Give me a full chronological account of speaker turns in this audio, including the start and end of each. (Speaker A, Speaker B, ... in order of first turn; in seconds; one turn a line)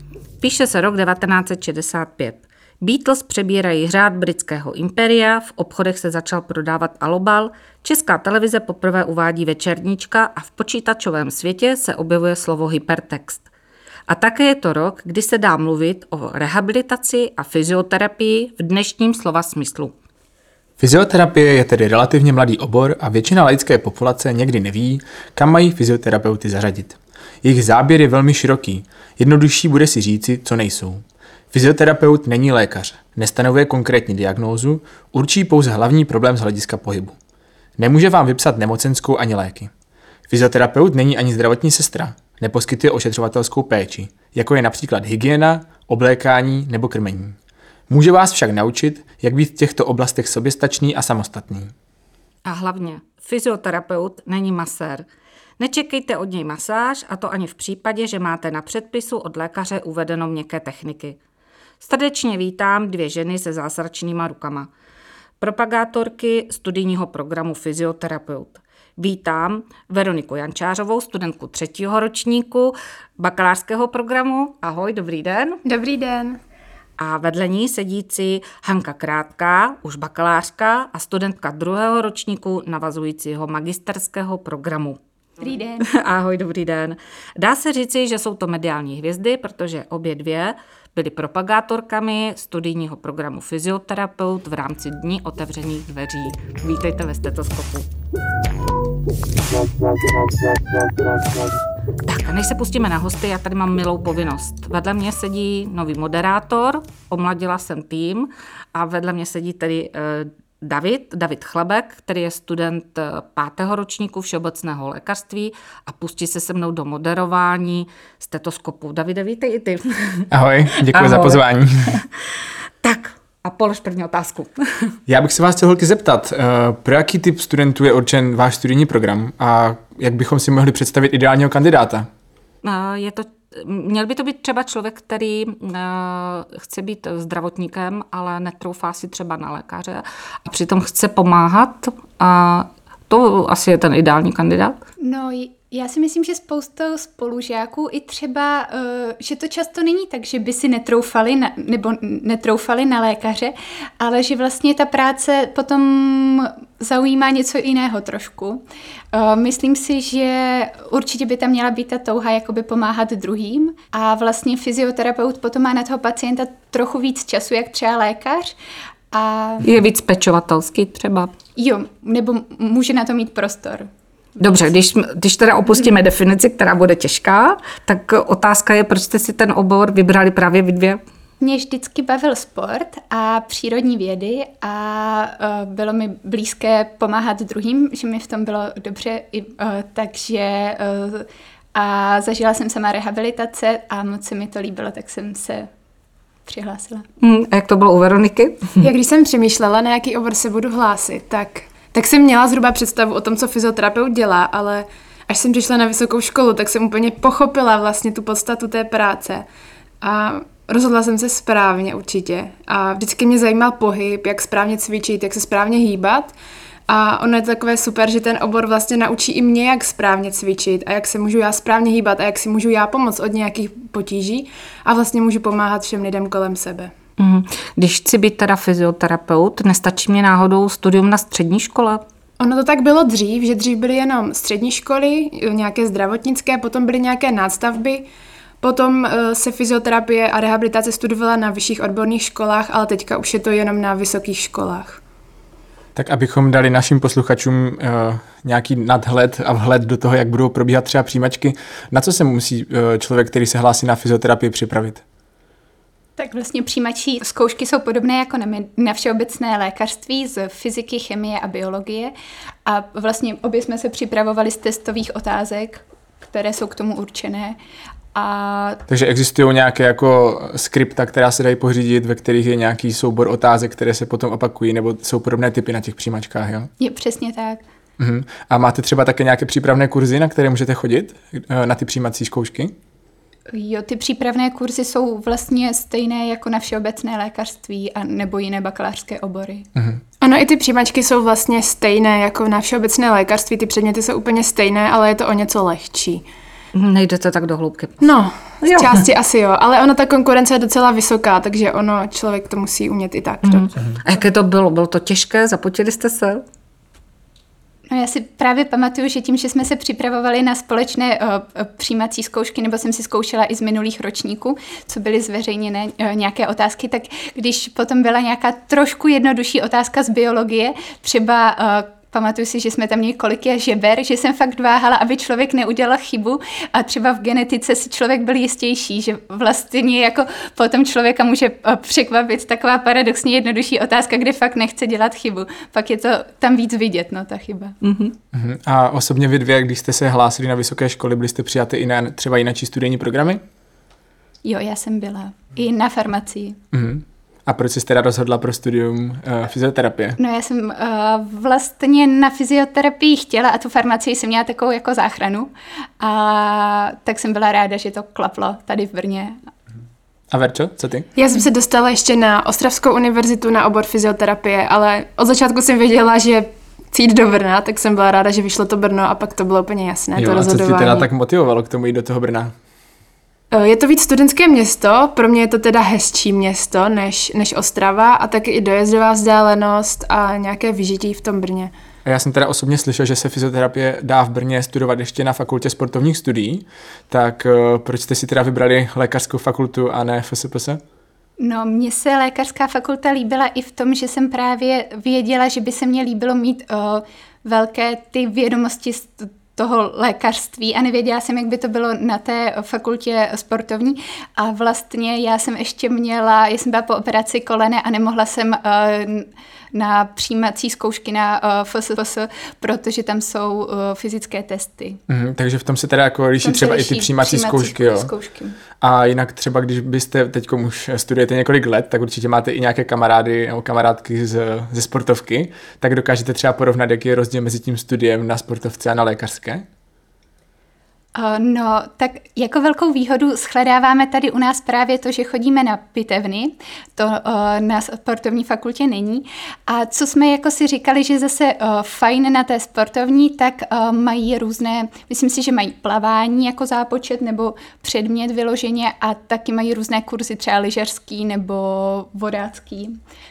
Speaker A: 0.4-13.4
Speaker A: 14.1-19.9
Speaker B: 20.8-37.1
Speaker B: 37.8-39.7
Speaker B: 40.3-47.4
Speaker B: 47.9-51.7
Speaker A: 52.4-55.0
Speaker A: 55.6-61.2
Speaker A: 61.8-64.7
Speaker A: 65.4-75.6
Speaker C: 75.6-76.4
Speaker A: 77.0-85.0
Speaker D: 85.4-85.9
Speaker A: 85.8-97.9
Speaker A: 102.0-120.3
Speaker B: 120.3-122.0
Speaker A: 120.9-122.0
Speaker A: 122.8-125.0
Speaker B: 125.1-132.1
Speaker A: 132.6-144.8
Speaker D: 145.0-168.5
Speaker D: 169.1-169.7
Speaker A: 169.6-171.3
Speaker D: 171.6-173.9
Speaker A: 174.4-181.0
Speaker D: 181.4-195.7
Speaker D: 196.4-197.1
Speaker A: 197.2-198.9
Speaker C: 198.8-209.4
Speaker C: 210.0-216.3
Speaker C: 216.9-226.9
Speaker A: 227.2-232.0
Speaker C: 232.4-238.1
Speaker C: 238.6-245.0
Speaker B: 245.9-255.0
Speaker D: 256.2-262.1
Speaker D: 262.7-267.6
Speaker D: 268.1-268.8
Speaker B: 268.9-276.7
Speaker D: 276.8-277.6
Speaker B: 278.0-282.8
Speaker D: 283.5-289.7
Speaker B: 289.8-290.0
Speaker C: 290.2-296.2
Speaker A: 296.7-299.0
Speaker C: 298.0-303.7
Speaker A: 303.4-306.4
Speaker D: 307.9-337.8
Speaker A: 337.8-338.1
Speaker B: 338.3-343.4
Speaker D: 344.4-346.6
Speaker B: 346.7-350.2
Speaker D: 350.2-359.4
Speaker B: 360.3-361.1
Speaker C: 361.2-371.1
Speaker B: 370.2-372.5
Speaker C: 373.5-381.7
Speaker B: 382.1-390.8
Speaker D: 391.4-415.0
Speaker B: 415.1-418.1
Speaker D: 416.4-418.6
Speaker B: 418.8-429.6
Speaker D: 431.1-453.0